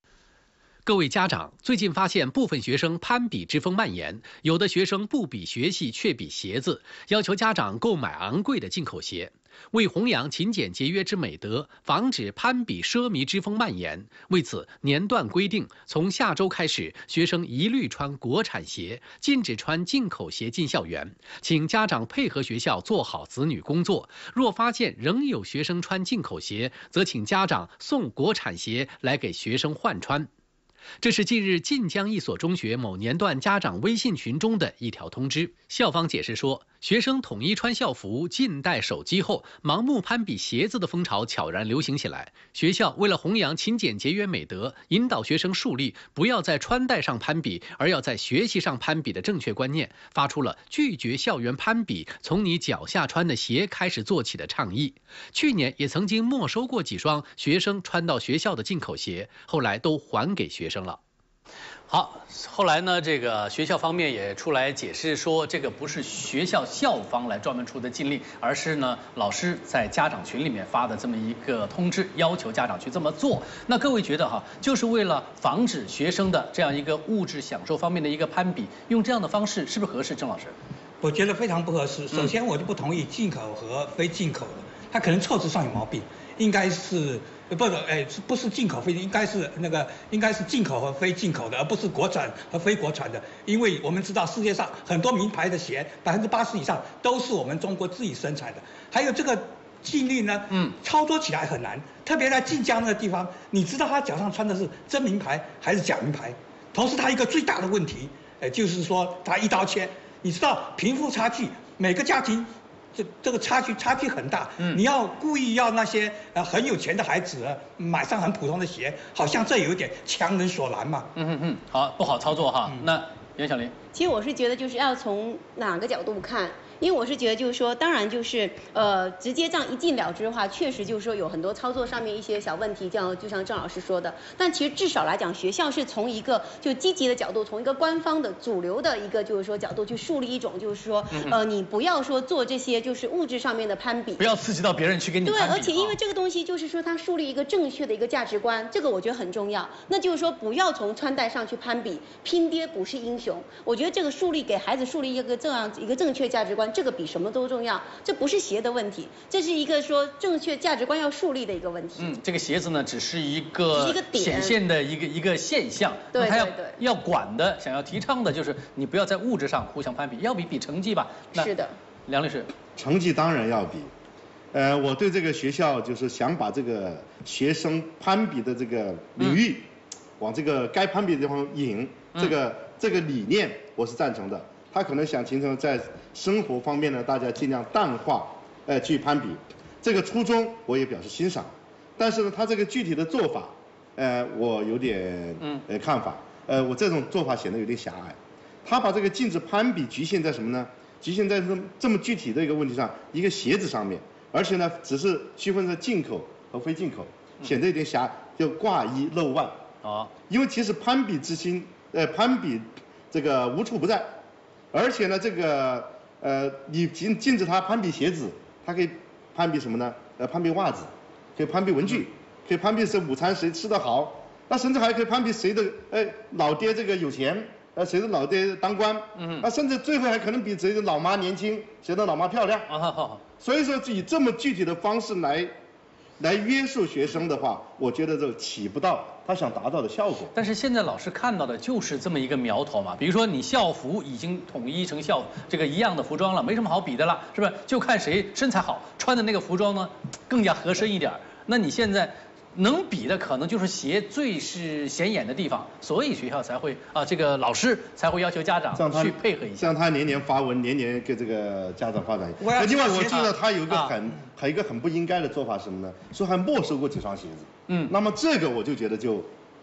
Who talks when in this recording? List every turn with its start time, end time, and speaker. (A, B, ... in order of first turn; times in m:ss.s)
0:00.9-0:30.3 A
0:31.0-1:01.0 A
1:01.9-1:20.6 A
1:21.0-2:01.1 B
2:01.2-2:03.7 A
2:03.9-2:24.2 C
2:24.2-2:26.0 A
2:25.2-2:42.2 C
2:42.0-2:51.5 A
2:43.7-2:44.6 C
2:46.1-2:46.8 C
2:51.4-2:51.7 C
2:52.1-2:52.5 A
2:52.8-2:53.9 D
2:54.5-2:59.7 D
3:00.2-3:29.6 D
3:29.8-3:30.1 A
3:30.3-3:34.2 D
3:34.7-3:52.7 D
3:49.2-3:49.5 A
3:52.7-3:53.2 A
3:53.4-3:55.5 D
3:56.2-4:00.3 D
4:00.4-4:19.7 A
4:18.8-4:29.3 D
4:22.4-4:23.3 B
4:23.7-4:24.0 A
4:27.7-4:27.9 A